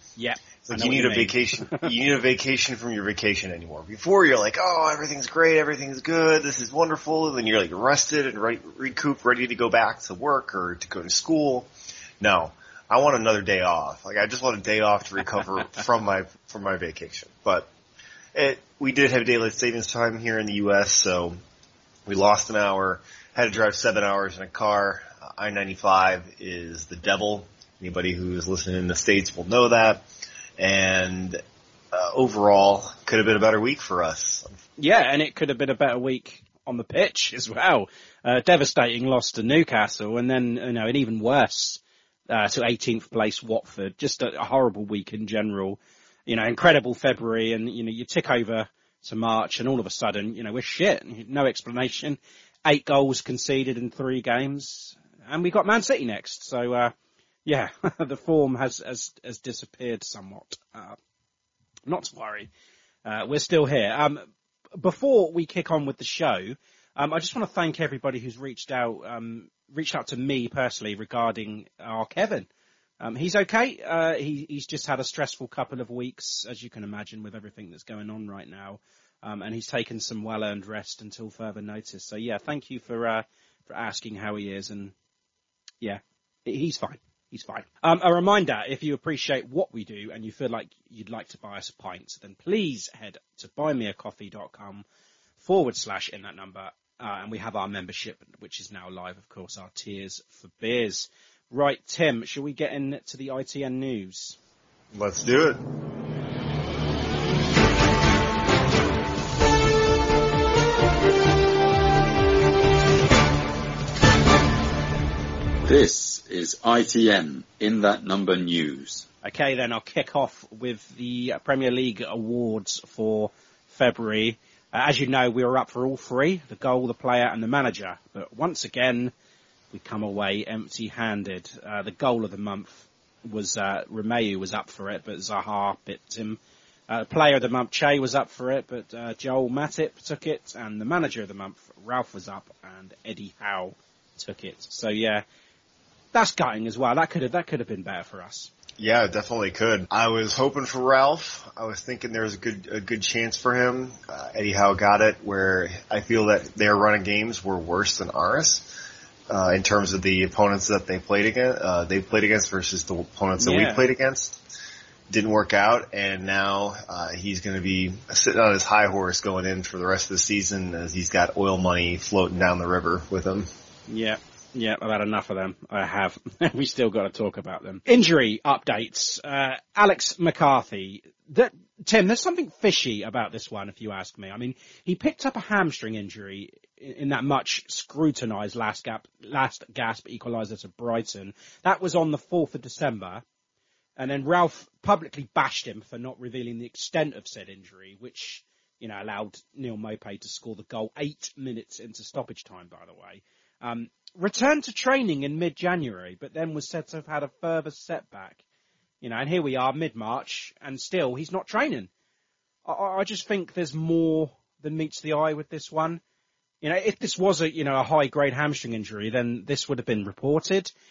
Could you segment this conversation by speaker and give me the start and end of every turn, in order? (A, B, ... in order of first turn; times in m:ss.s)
0:00.2-0:01.9 A
0:00.6-0:11.7 B
0:12.2-0:17.7 B
0:18.3-0:21.4 B
0:22.1-0:30.0 B
0:30.6-0:31.4 B
0:31.9-0:34.6 B
0:34.8-0:56.9 A
0:57.4-1:01.0 A
1:01.8-1:02.5 A
1:03.0-1:04.2 A
1:04.8-1:12.5 A
1:13.0-1:24.9 A
1:25.8-1:34.8 A
1:35.4-1:44.4 A
1:44.9-1:45.6 B
1:55.7-1:59.0 C
1:59.2-2:09.1 A
2:09.7-2:25.2 A
2:26.1-2:28.5 A
2:28.8-2:38.7 B
2:39.3-2:44.4 B
2:43.4-2:43.8 A
2:45.1-2:53.5 B
2:53.9-3:13.2 A
3:14.0-3:28.4 A
3:29.0-3:31.9 A
3:32.7-3:36.0 A
3:36.6-3:40.7 A